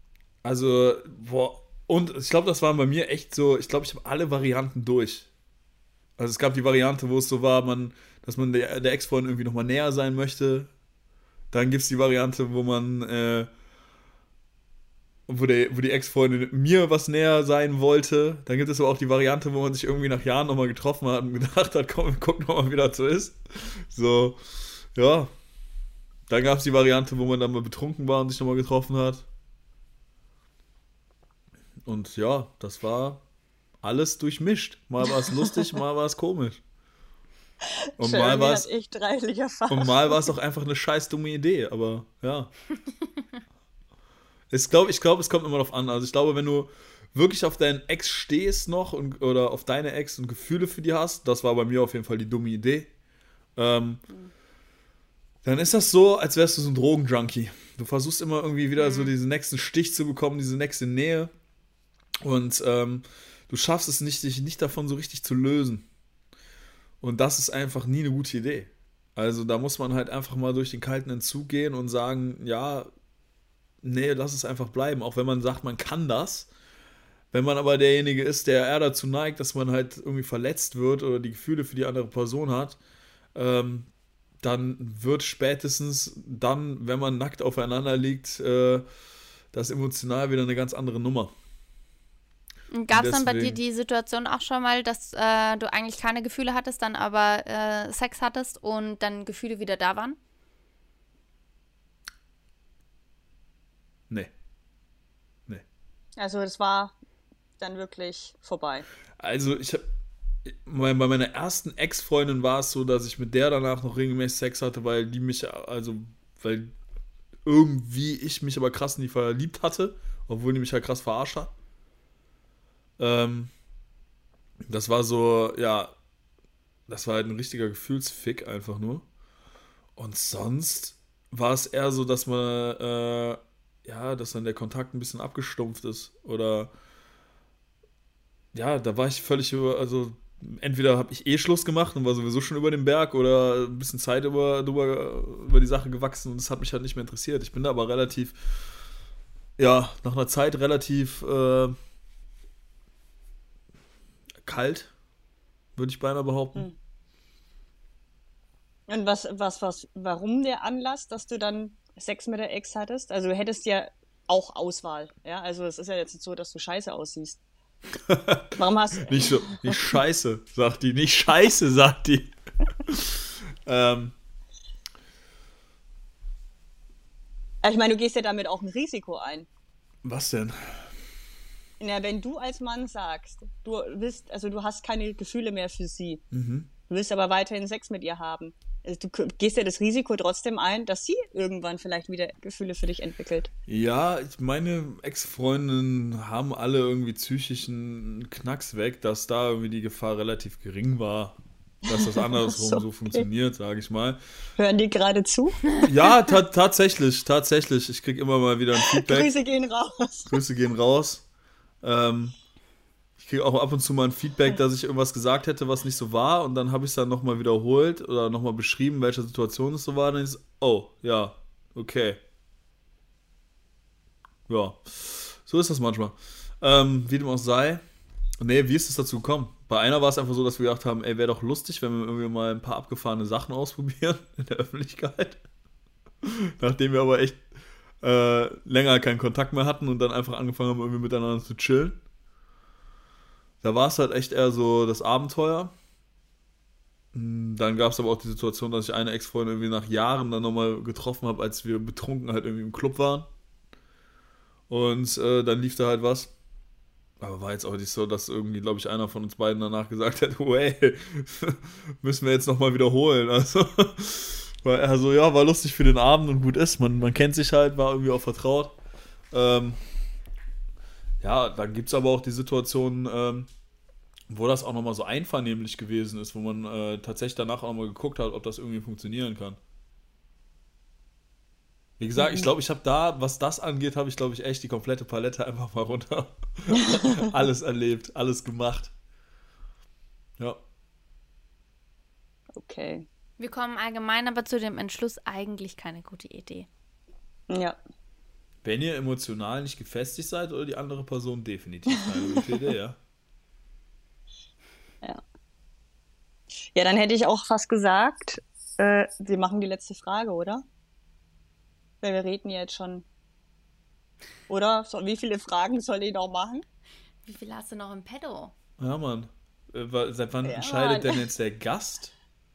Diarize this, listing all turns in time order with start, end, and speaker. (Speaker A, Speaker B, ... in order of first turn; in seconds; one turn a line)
Speaker A: 0.4-5.3
Speaker A: 6.2-10.7
Speaker A: 11.5-13.5
Speaker A: 15.3-24.4
Speaker A: 24.9-25.3
Speaker A: 26.3-29.3
Speaker A: 31.9-33.2
Speaker A: 33.8-36.6
Speaker B: 37.7-40.1
Speaker A: 38.0-38.7
Speaker A: 39.7-42.5
Speaker A: 44.5-52.9
Speaker A: 53.6-54.0
Speaker A: 55.4-61.3
Speaker C: 58.8-59.1
Speaker A: 62.2-65.9
Speaker A: 67.0-72.9
Speaker A: 73.8-76.5
Speaker A: 77.3-82.8
Speaker A: 83.3-83.9
Speaker A: 84.4-88.9
Speaker A: 89.5-91.3
Speaker C: 92.7-100.2
Speaker A: 92.9-93.6
Speaker B: 106.2-107.0
Speaker B: 107.6-108.9
Speaker A: 109.2-109.9
Speaker A: 110.5-116.8
Speaker A: 117.5-121.5
Speaker A: 123.0-123.5
Speaker A: 124.7-125.9
Speaker A: 126.9-129.1
Speaker A: 130.0-136.7
Speaker A: 138.5-148.4
Speaker A: 149.6-151.8
Speaker A: 154.4-154.9
Speaker A: 155.8-156.7
Speaker B: 158.9-167.4
Speaker A: 168.1-174.1
Speaker B: 168.6-169.8
Speaker B: 177.6-179.5
Speaker A: 180.0-180.9
Speaker B: 181.8-186.2
Speaker A: 186.3-186.7
Speaker B: 186.9-193.5
Speaker A: 193.7-204.2
Speaker B: 201.9-203.3
Speaker B: 204.6-205.8
Speaker A: 205.8-209.3
Speaker B: 208.8-210.3
Speaker A: 210.3-211.2
Speaker A: 211.8-212.3
Speaker A: 213.2-222.2
Speaker A: 224.5-227.8
Speaker A: 228.4-235.4
Speaker A: 236.2-237.4
Speaker A: 238.0-242.0
Speaker A: 243.6-245.7
Speaker A: 247.1-253.3
Speaker A: 254.7-256.3
Speaker A: 257.2-268.8
Speaker A: 269.3-269.8
Speaker A: 271.2-273.5
Speaker A: 274.3-279.6
Speaker A: 282.0-288.9
Speaker B: 286.8-287.2
Speaker B: 292.6-293.1
Speaker C: 293.4-296.7
Speaker B: 297.5-297.8
Speaker A: 298.6-303.0
Speaker B: 306.8-310.6
Speaker B: 312.0-313.1
Speaker B: 314.5-316.6
Speaker C: 317.3-318.5
Speaker A: 318.8-322.1
Speaker B: 320.4-321.2